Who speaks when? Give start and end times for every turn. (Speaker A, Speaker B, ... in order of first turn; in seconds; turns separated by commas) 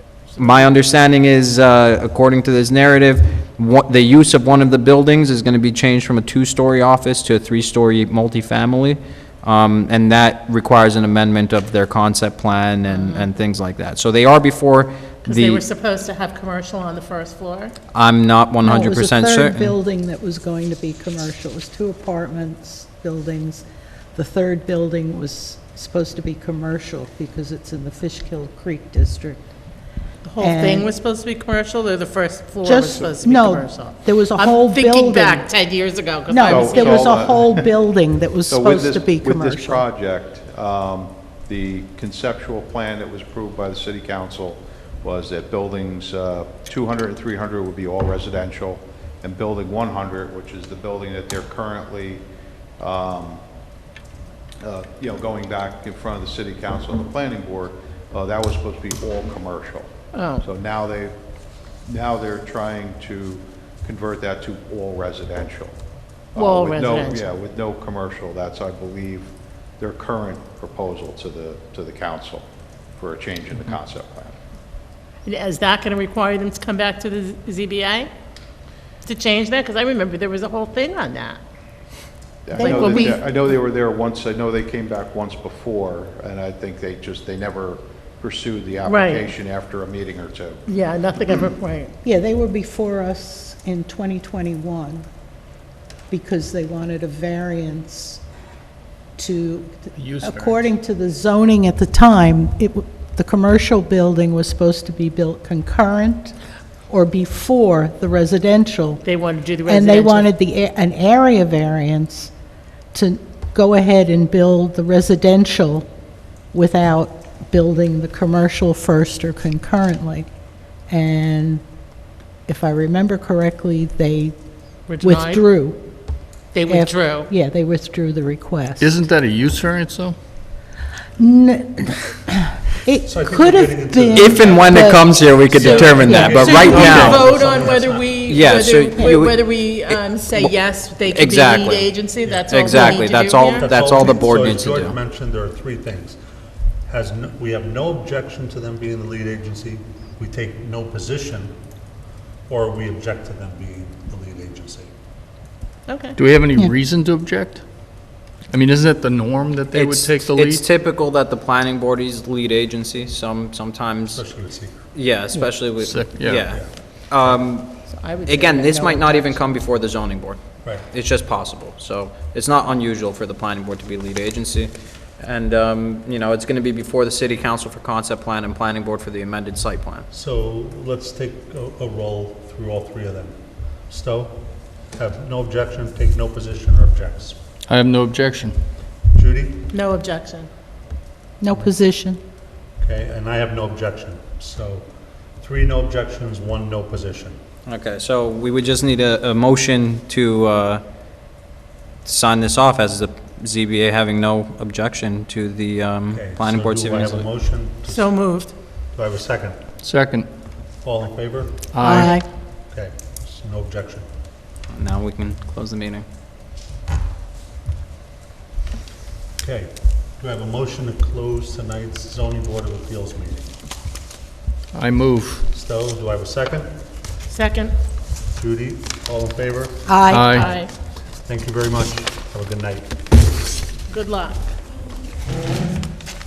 Speaker A: 0.4-15.6, Speaker B: 12.9-13.3, Speaker B: 15.2-17.8, Speaker A: 17.9-19.8, Speaker C: 18.6-29.5, Speaker B: 30.2-37.2, Speaker C: 30.4-30.9, Speaker C: 32.6-35.5, Speaker C: 36.3-39.9, Speaker D: 36.4-37.6, Speaker D: 38.5-52.2, Speaker D: 52.8-53.4, Speaker D: 54.6-61.1, Speaker B: 60.1-60.5, Speaker D: 61.9-65.8, Speaker D: 66.3-72.5, Speaker B: 66.3-67.3, Speaker D: 73.0-74.4, Speaker B: 75.2-78.1, Speaker B: 79.0-81.4, Speaker D: 82.5-90.6, Speaker C: 82.5-83.2, Speaker B: 82.6-83.2, Speaker B: 88.8-89.3, Speaker B: 90.7-91.9, Speaker C: 92.0-95.1, Speaker C: 96.1-98.2, Speaker C: 99.2-106.4, Speaker E: 100.0-100.7, Speaker C: 106.9-109.0, Speaker B: 109.0-110.3, Speaker C: 109.7-112.3, Speaker C: 112.9-115.9, Speaker C: 116.5-120.3, Speaker C: 120.9-121.6, Speaker C: 122.5-124.3, Speaker B: 124.9-125.4, Speaker C: 125.0-125.8, Speaker B: 126.5-127.3, Speaker C: 126.7-128.9, Speaker E: 128.8-130.2, Speaker C: 131.2-135.2, Speaker F: 133.1-138.2, Speaker A: 134.1-137.2, Speaker B: 135.6-143.7, Speaker C: 135.9-136.6, Speaker A: 138.2-140.5, Speaker C: 139.0-139.2, Speaker A: 141.1-141.9, Speaker F: 142.2-146.2, Speaker A: 142.5-144.9, Speaker F: 146.9-151.5, Speaker F: 152.5-154.9, Speaker B: 155.9-156.2, Speaker E: 156.2-157.6, Speaker E: 158.5-160.7, Speaker A: 159.7-164.2, Speaker F: 164.1-164.8, Speaker A: 164.9-180.1, Speaker E: 165.5-166.5, Speaker F: 166.4-166.7, Speaker B: 167.9-169.5, Speaker F: 180.1-187.4, Speaker E: 187.7-188.6, Speaker F: 189.1-189.7, Speaker B: 189.7-190.5, Speaker C: 191.4-192.2, Speaker F: 192.8-194.9, Speaker F: 195.4-197.4, Speaker A: 197.7-200.8, Speaker A: 202.1-207.3, Speaker F: 206.1-208.2, Speaker B: 207.9-208.5, Speaker F: 208.9-209.6, Speaker E: 209.8-210.3, Speaker F: 210.8-211.7, Speaker E: 211.7-212.2, Speaker C: 211.8-212.3, Speaker F: 212.7-214.1, Speaker A: 214.7-216.1, Speaker F: 219.4-223.5, Speaker E: 224.7-225.4, Speaker F: 225.5-226.7, Speaker B: 227.3-227.8, Speaker F: 228.3-230.7, Speaker C: 229.8-230.4, Speaker E: 230.1-230.5, Speaker B: 230.2-230.7, Speaker F: 231.2-233.0, Speaker B: 233.9-234.5